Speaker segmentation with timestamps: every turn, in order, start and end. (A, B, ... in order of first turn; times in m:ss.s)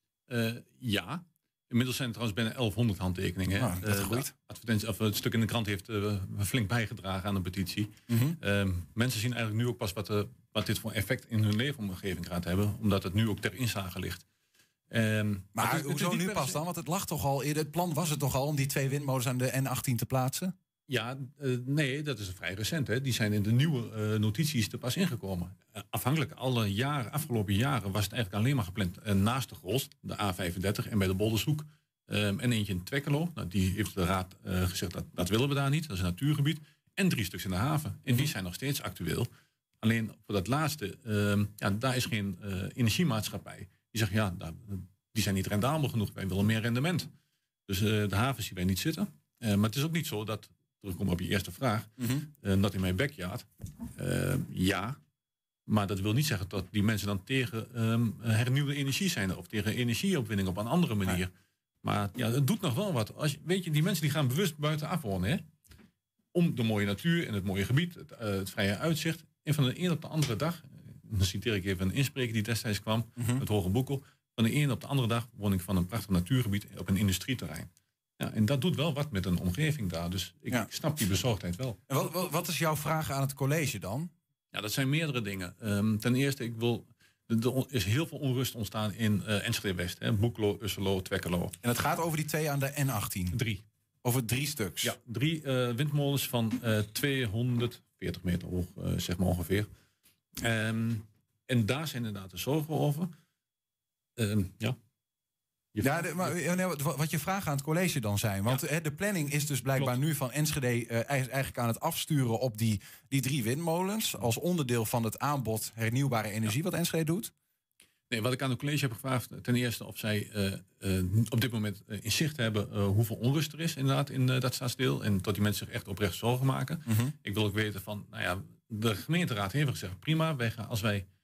0:00.3-0:14.2 A
0:03.5-0:04.3 B
0:08.1-0:08.4 B
0:14.9-0:16.6 A
0:15.6-0:20.5 B
0:20.9-0:39.3 A
0:39.8-0:47.1 A
0:47.7-0:55.0 A
0:52.0-0:52.3 B
0:55.7-1:01.3 A
1:01.8-1:05.4 A
1:06.3-1:21.8 A
1:13.2-1:13.4 B
1:21.9-1:24.1 B
1:24.5-1:31.6 A
1:31.6-1:33.4 B
1:33.3-1:33.6 A
1:34.0-1:34.9 B
1:34.8-1:39.7 A
1:40.4-1:43.1 A
1:44.2-1:44.8 A
1:45.7-1:46.4 A
1:45.8-1:57.3 B
1:58.1-2:11.1 A
2:06.9-2:07.1 B